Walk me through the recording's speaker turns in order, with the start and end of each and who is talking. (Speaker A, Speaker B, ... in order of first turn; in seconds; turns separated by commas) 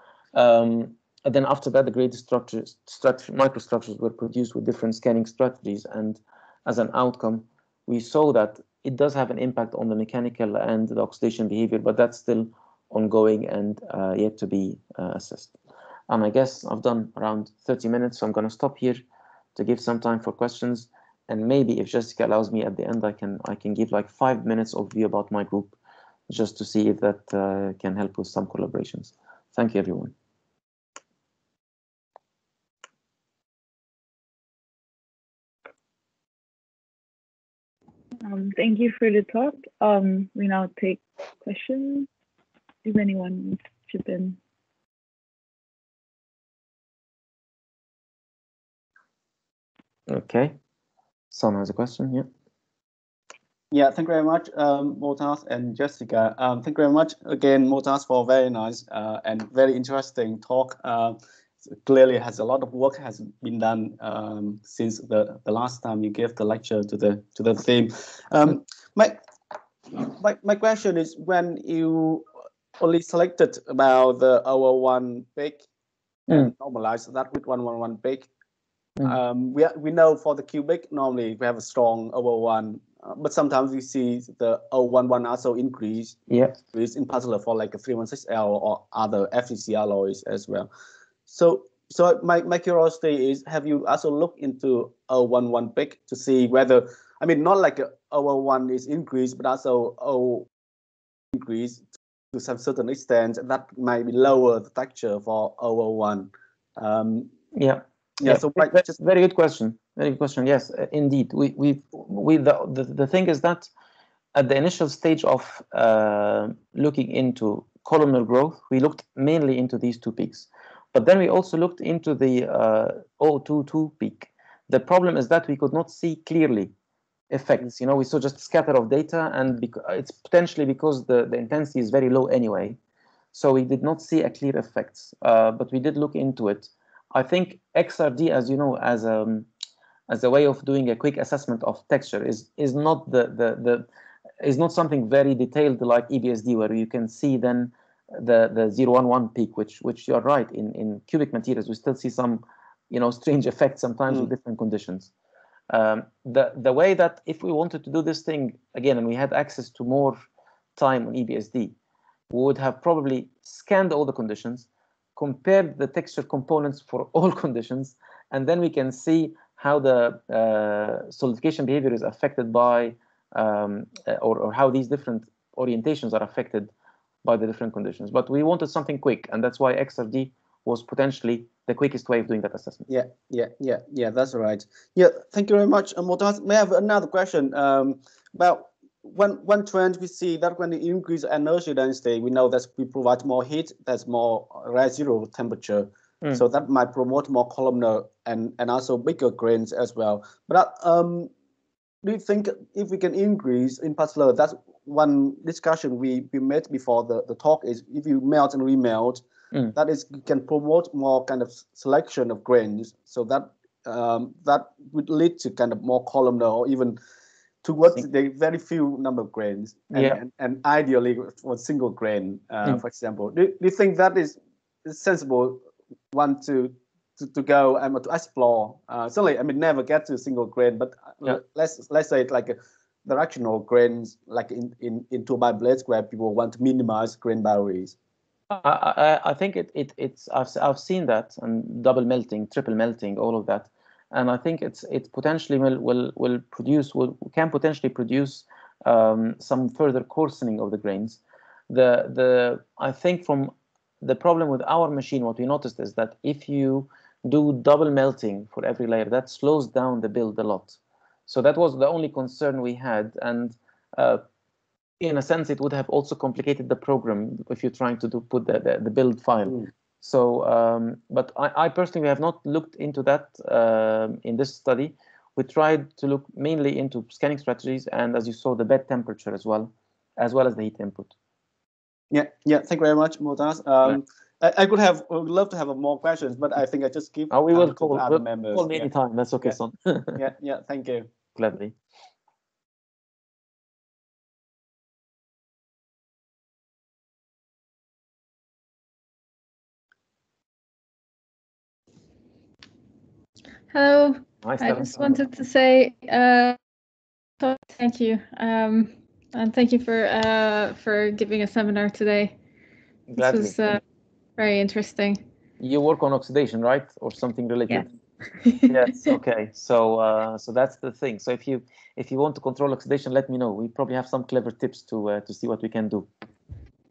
Speaker A: 0.3-15.6, Speaker A: 16.1-25.8, Speaker A: 26.3-30.1, Speaker B: 38.2-42.1, Speaker B: 42.8-44.4, Speaker A: 50.1-50.6, Speaker A: 51.3-52.3, Speaker C: 53.7-61.2, Speaker C: 61.8-69.2, Speaker C: 69.9-72.2, Speaker C: 72.8-75.7, Speaker C: 76.3-78.3, Speaker C: 79.0-90.7, Speaker A: 86.3-86.6, Speaker C: 91.3-100.5, Speaker C: 101.3-101.8, Speaker C: 102.3-107.3, Speaker A: 107.5-113.7, Speaker C: 108.2-108.9, Speaker A: 114.3-126.7, Speaker A: 127.3-132.8, Speaker A: 133.3-139.5, Speaker A: 140.1-143.9, Speaker A: 144.4-155.1, Speaker A: 155.7-161.8, Speaker A: 162.3-176.7, Speaker A: 177.2-182.9, Speaker C: 182.9-201.3, Speaker C: 202.0-209.2, Speaker C: 209.8-217.0, Speaker C: 217.6-237.9, Speaker A: 238.5-264.2, Speaker A: 265.0-281.1, Speaker C: 282.1-288.9, Speaker A: 287.3-290.2, Speaker C: 290.2-291.1, Speaker A: 291.4-291.8, Speaker D: 303.7-306.6, Speaker A: 304.4-305.3, Speaker D: 307.4-312.4, Speaker A: 313.1-313.7, Speaker D: 313.2-313.8, Speaker D: 314.4-315.2, Speaker A: 315.6-317.9, Speaker D: 318.4-318.7, Speaker A: 318.6-326.1